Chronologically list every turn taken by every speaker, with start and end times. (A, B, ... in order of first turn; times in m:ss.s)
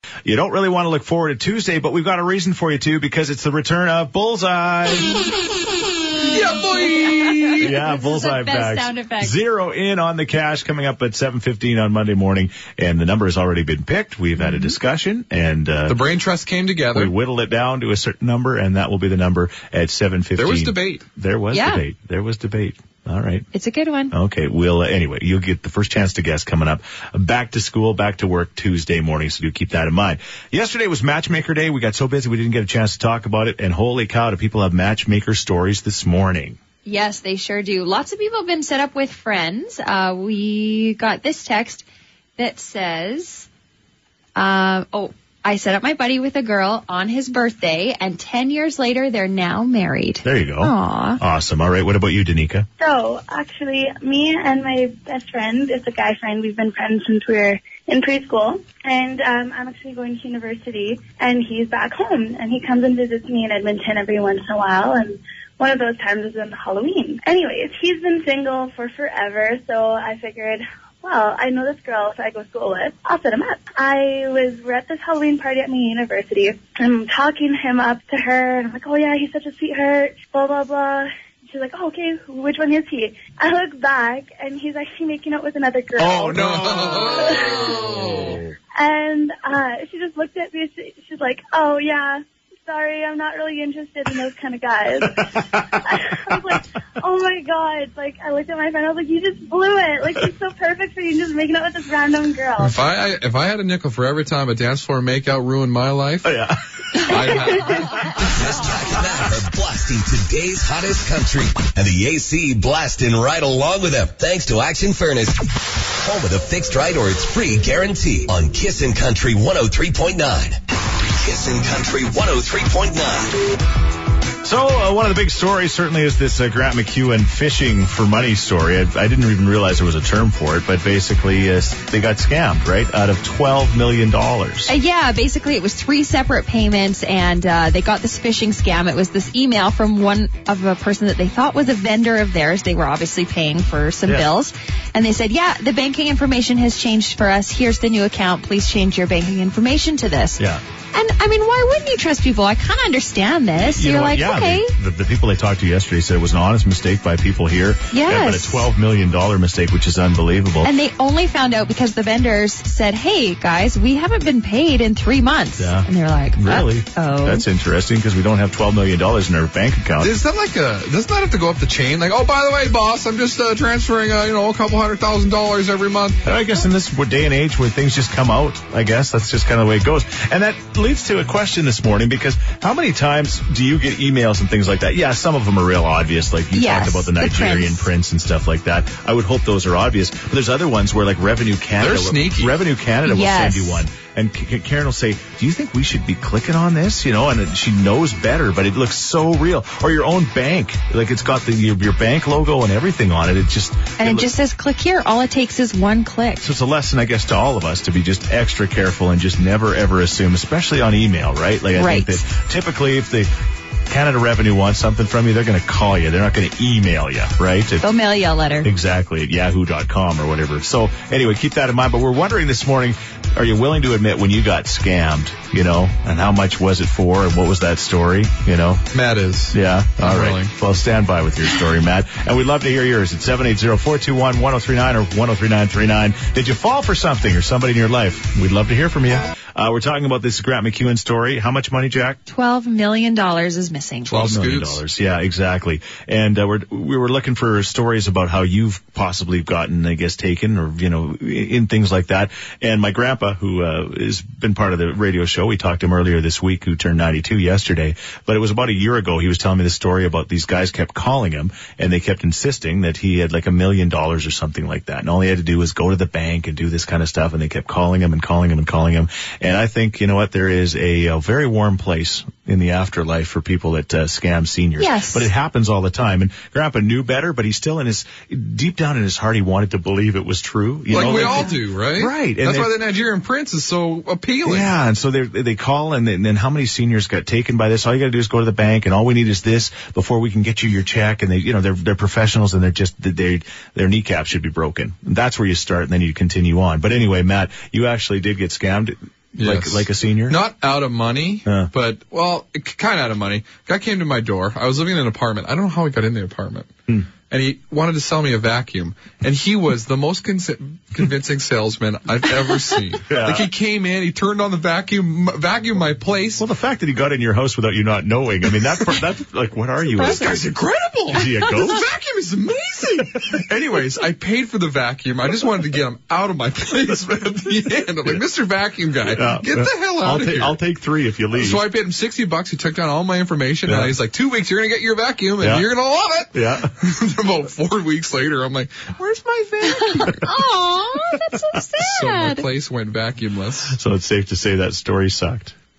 0:00.2-0:05.2 A
0:06.2-0:07.7 B
0:07.0-0:09.4 C
0:07.6-0:16.0 A
0:14.4-0:14.7 C
0:15.9-0:17.1 B
0:16.9-0:23.5 A
0:20.4-0:21.0 B
0:21.5-0:21.8 C
0:23.5-0:24.1 C
0:24.1-0:36.6 A
0:36.8-0:41.8 C
0:42.4-0:43.5 C
0:44.4-0:51.2 C
0:50.2-0:52.7 A
0:52.8-1:28.0 D
1:26.0-1:28.6 A
1:26.3-1:28.3 B
1:28.8-1:42.8 D
1:35.5-1:35.8 A
1:42.6-1:46.4 B
1:46.2-1:47.7 A
1:47.0-1:48.1 B
1:48.2-2:03.5 E
2:04.4-2:14.7 A
2:14.7-2:30.4 C
2:30.9-2:34.8 C
2:33.6-2:40.7 A
2:37.9-2:38.7 C
2:40.6-2:47.4 C
2:45.6-2:50.1 A
2:50.0-2:56.2 B
2:56.2-3:24.3 A
3:06.5-3:07.8 C
3:11.8-3:12.6 B
3:13.0-3:13.8 C
3:24.0-3:26.5 C
3:26.4-3:33.3 A
3:31.8-3:32.2 C
3:33.9-3:37.9 A
3:37.8-3:38.7 C
3:38.6-3:48.8 A
3:48.9-3:50.5 B
3:49.5-4:02.2 A
4:02.3-4:04.1 C
4:04.1-4:04.8 B
4:04.1-4:42.8 A
4:34.8-4:35.3 C
4:40.9-4:44.7 B
4:44.4-5:00.4 A
4:59.4-5:06.7 B
5:07.3-5:16.5 B
5:13.1-5:13.5 A
5:16.4-5:20.5 A
5:19.9-5:30.6 B
5:20.0-5:20.4 C
5:21.1-5:21.9 A
5:29.0-5:31.6 A
5:31.4-5:40.3 B
5:33.7-5:34.0 A
5:35.4-5:35.7 A
5:36.3-5:36.7 A
5:39.7-5:42.5 C
5:41.8-5:43.8 B
5:43.7-5:45.6 A